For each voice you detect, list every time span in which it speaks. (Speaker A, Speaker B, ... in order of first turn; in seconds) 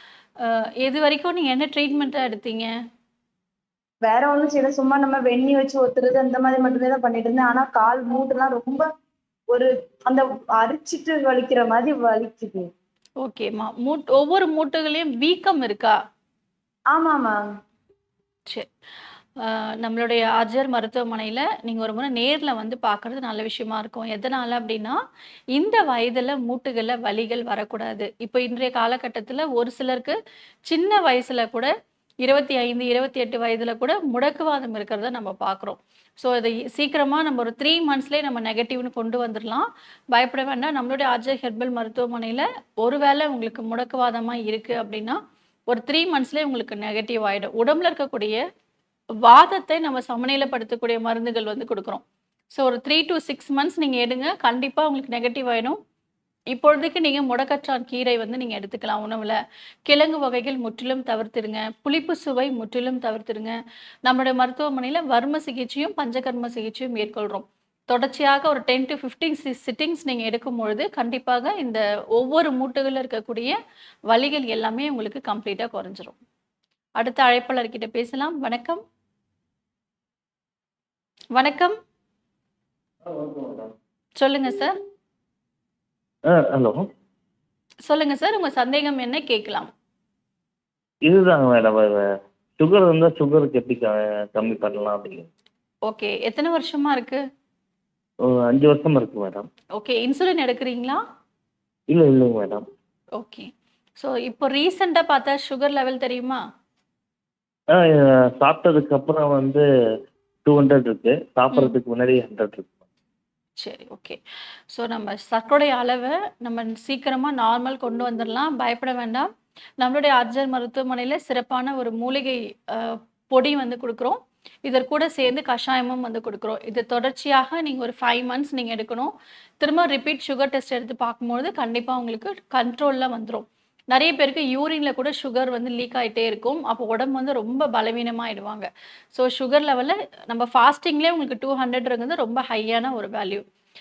Speaker A: 0.4-2.7, 13.2-16.0, 19.4-25.0, 25.6-30.2, 30.7-31.7, 32.2-45.2, 45.7-48.4, 49.2-52.0, 52.5-55.8, 56.5-59.4, 59.9-73.5, 74.1-76.2, 77.0-78.8, 81.4-81.8, 84.2-84.7, 87.9-89.7, 95.9-97.2, 99.8-101.0, 103.2-106.4, 113.6-114.2, 114.7-119.3, 119.8-143.4
Speaker B: 4.0-8.9, 9.5-12.7, 16.9-17.5
Speaker C: 83.1-83.7, 86.3-86.8, 91.1-92.0, 92.6-95.3, 98.3-99.5, 101.9-102.6, 107.7-109.6, 110.5-112.8